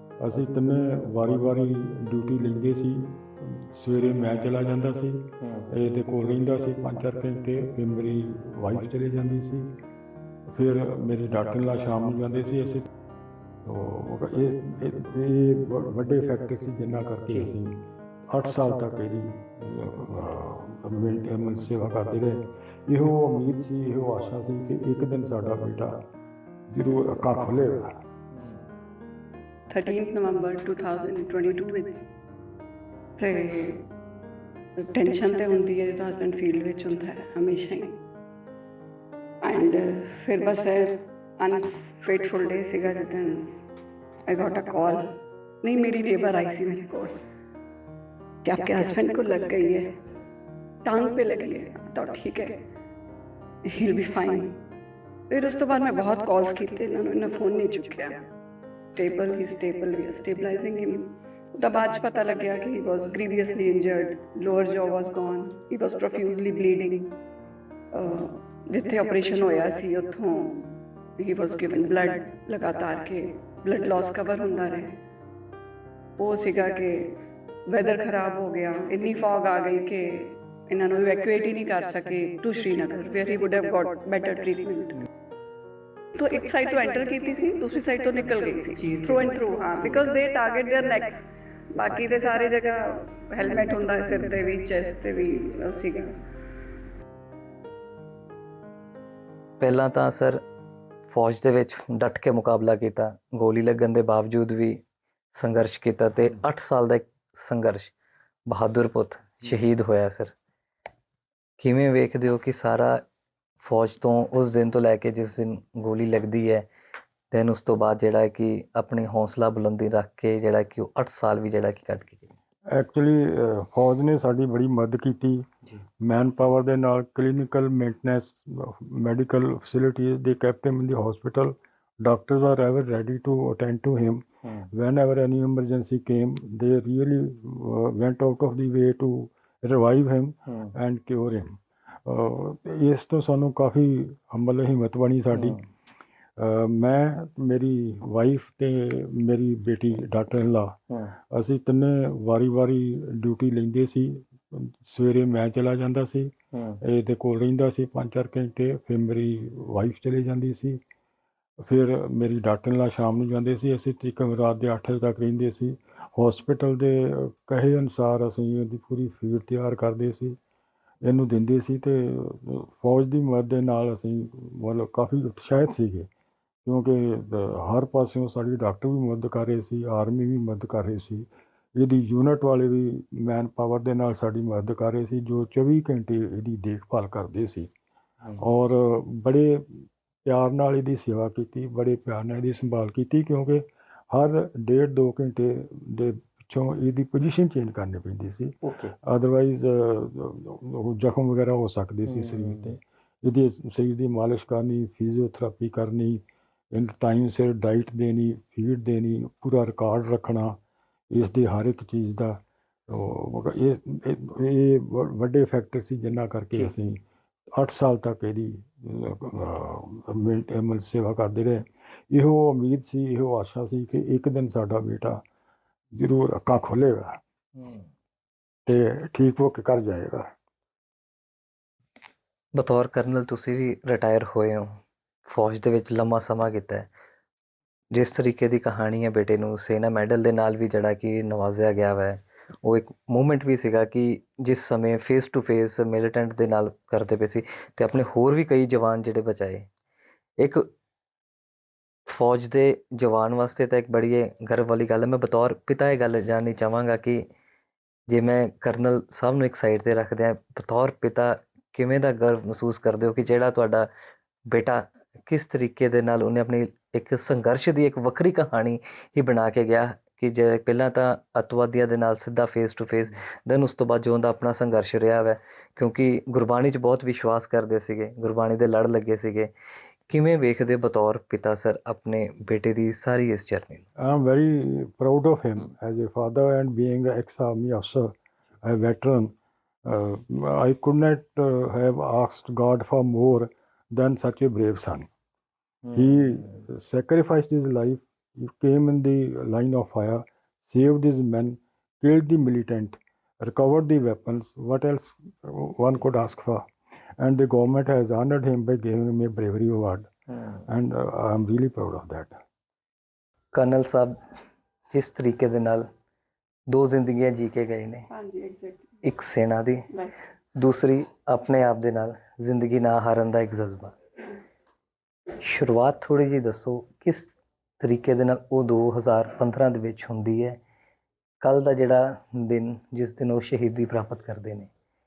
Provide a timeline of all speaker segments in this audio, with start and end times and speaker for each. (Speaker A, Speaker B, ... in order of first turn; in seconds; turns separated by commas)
Speaker A: 0.2-9.7, Speaker B: 5.4-5.7, Speaker A: 10.5-12.8, Speaker A: 13.7-26.0, Speaker A: 26.7-28.0, Speaker C: 29.7-32.0, Speaker C: 33.2-33.9, Speaker C: 34.8-38.0, Speaker C: 39.4-43.5, Speaker C: 44.3-45.1, Speaker C: 45.6-47.1, Speaker C: 48.5-49.9, Speaker C: 50.9-52.6, Speaker C: 53.7-54.6, Speaker C: 55.3-58.2, Speaker C: 59.0-67.2, Speaker C: 67.9-75.0, Speaker C: 76.2-77.1, Speaker C: 77.7-85.0, Speaker C: 86.2-96.2, Speaker B: 88.8-90.0, Speaker B: 99.6-100.4, Speaker B: 101.1-104.8, Speaker B: 105.3-107.9, Speaker B: 108.5-110.3, Speaker B: 111.6-113.0, Speaker B: 113.6-116.7, Speaker B: 117.3-122.3, Speaker A: 122.7-125.5, Speaker A: 126.0-145.6, Speaker B: 134.4-134.7, Speaker B: 140.5-140.7, Speaker B: 145.3-145.7, Speaker A: 146.4-150.8, Speaker A: 151.3-156.3, Speaker B: 156.5-156.8, Speaker A: 156.8-160.8, Speaker A: 161.6-170.4, Speaker A: 171.0-176.1, Speaker A: 176.7-187.7, Speaker A: 188.4-210.6, Speaker B: 198.6-198.9, Speaker B: 202.1-202.7, Speaker A: 211.1-217.0, Speaker A: 217.5-225.2, Speaker A: 225.9-227.2, Speaker B: 227.6-227.8, Speaker A: 228.7-230.3, Speaker B: 232.6-234.8, Speaker B: 235.3-236.9, Speaker B: 237.9-249.7, Speaker B: 250.4-250.7, Speaker B: 252.1-257.2, Speaker B: 258.1-263.9, Speaker B: 264.5-279.5, Speaker B: 280.1-283.9, Speaker A: 284.0-289.3, Speaker A: 289.9-295.1, Speaker A: 295.9-310.1, Speaker A: 310.7-312.4, Speaker B: 313.5-314.2, Speaker B: 314.9-315.9, Speaker B: 316.7-318.1, Speaker C: 318.1-319.0, Speaker B: 319.0-319.9, Speaker B: 320.6-323.9, Speaker B: 325.4-330.6, Speaker B: 331.4-334.7